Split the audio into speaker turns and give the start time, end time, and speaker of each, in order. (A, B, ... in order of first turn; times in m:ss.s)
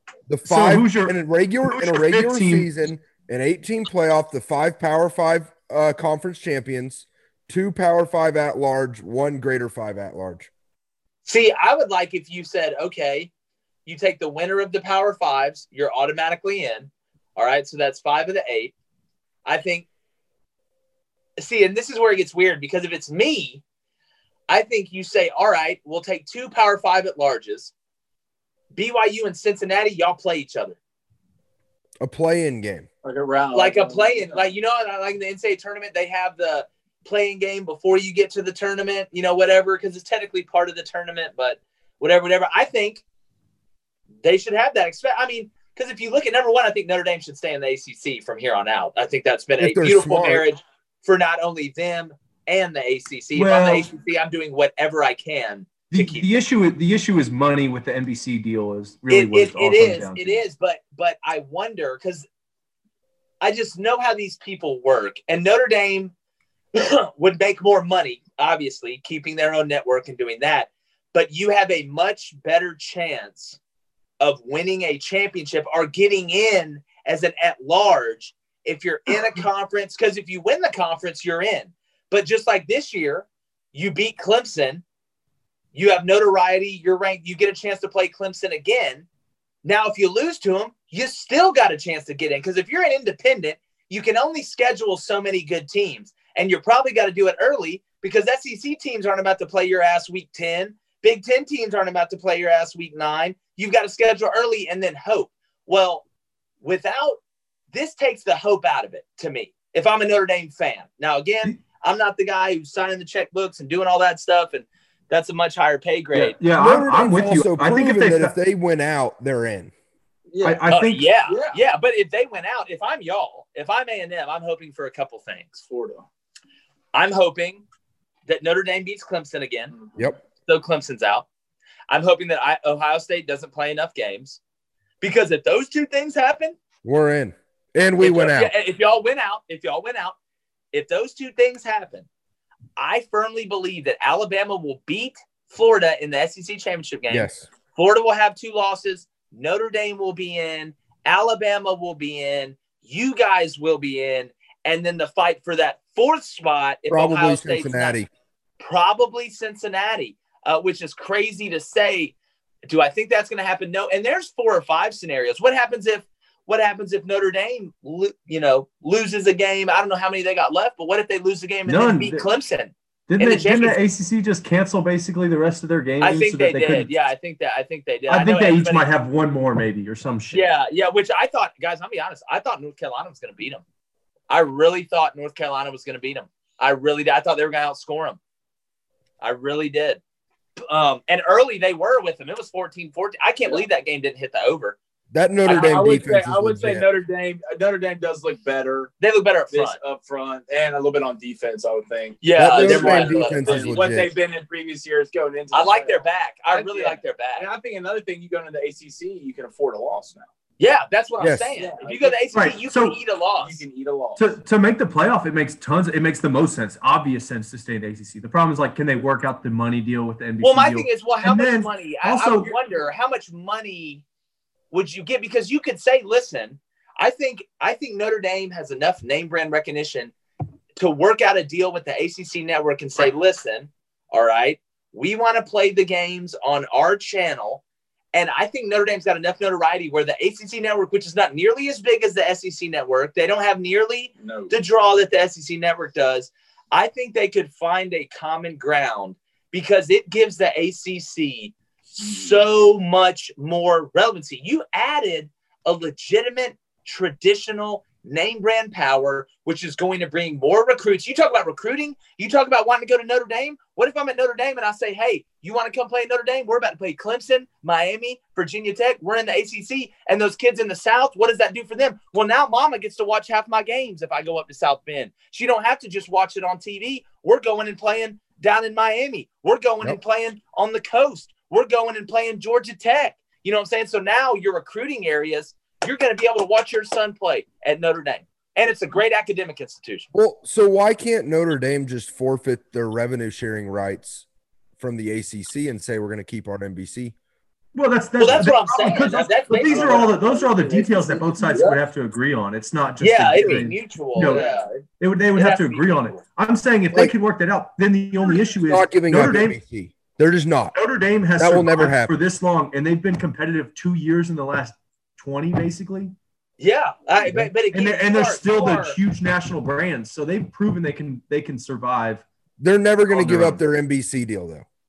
0:00.3-0:10.5 A
0:00.4-0:02.7 B
0:11.2-0:13.3 C
0:13.8-0:18.7 C
0:19.4-0:19.9 C
0:21.4-0:23.6 C
0:24.5-0:27.7 C
0:28.7-0:30.8 C
0:32.0-0:32.9 A
0:33.0-0:34.5 D
0:33.5-0:43.0 C
0:44.2-0:56.3 C
0:49.6-0:50.4 A
0:53.3-0:53.9 B
0:55.9-1:00.4 B
0:59.1-1:02.2 C
1:03.4-1:06.1 C
1:06.7-1:13.6 C
1:14.2-1:24.8 C
1:25.7-1:29.0 C
1:29.6-1:46.0 C
1:46.6-1:47.2 C
1:47.7-1:56.4 C
1:56.1-1:58.3 B
1:56.5-1:59.7 A
2:00.3-2:00.7 D
2:00.4-2:01.1 B
2:00.7-2:05.6 C
2:01.3-2:01.6 D
2:05.6-2:06.0 D
2:06.9-2:07.6 C
2:08.2-2:09.7 C
2:10.4-2:11.2 C
2:11.9-2:14.4 C
2:15.0-2:16.6 C
2:16.8-2:18.5 A
2:18.0-2:20.2 C
2:20.7-2:22.1 C
2:22.8-2:38.0 C
2:27.1-2:27.4 A
2:36.9-2:38.1 A
2:38.6-2:42.1 C
2:42.6-2:53.8 C
2:51.6-2:52.3 B
2:53.1-2:56.9 B
2:56.0-2:58.8 C
2:58.1-3:00.5 B
3:00.3-3:03.6 C
3:04.3-3:08.2 C
3:09.2-3:10.0 C
3:10.6-3:14.8 C
3:15.1-3:16.9 A
3:15.4-3:19.0 D
3:19.0-3:19.8 C
3:19.5-3:30.3 D
3:22.2-3:23.8 C
3:22.4-3:24.1 A
3:25.5-3:27.5 C
3:30.6-3:33.6 C
3:31.2-3:31.5 A
3:31.6-3:32.2 D
3:32.3-3:33.0 B
3:33.4-3:34.3 D
3:34.2-3:42.5 B
3:40.4-3:44.0 C
3:44.7-3:50.1 C
3:50.8-3:57.6 C
3:58.1-4:50.1 C
4:04.2-4:04.5 D
4:50.1-4:54.2 A
4:54.8-4:57.1 A
4:57.7-5:04.5 B
4:58.2-5:01.7 C
4:59.6-5:00.2 D
5:01.4-5:01.8 D
5:03.0-5:04.7 C
5:04.2-5:04.6 D
5:05.0-5:09.6 B
5:05.3-5:06.2 C
5:08.6-5:10.8 A
5:10.7-5:16.1 B
5:11.4-5:12.1 A
5:16.6-5:19.0 C
5:17.2-5:22.2 B
5:22.6-5:24.6 A
5:23.1-5:23.6 B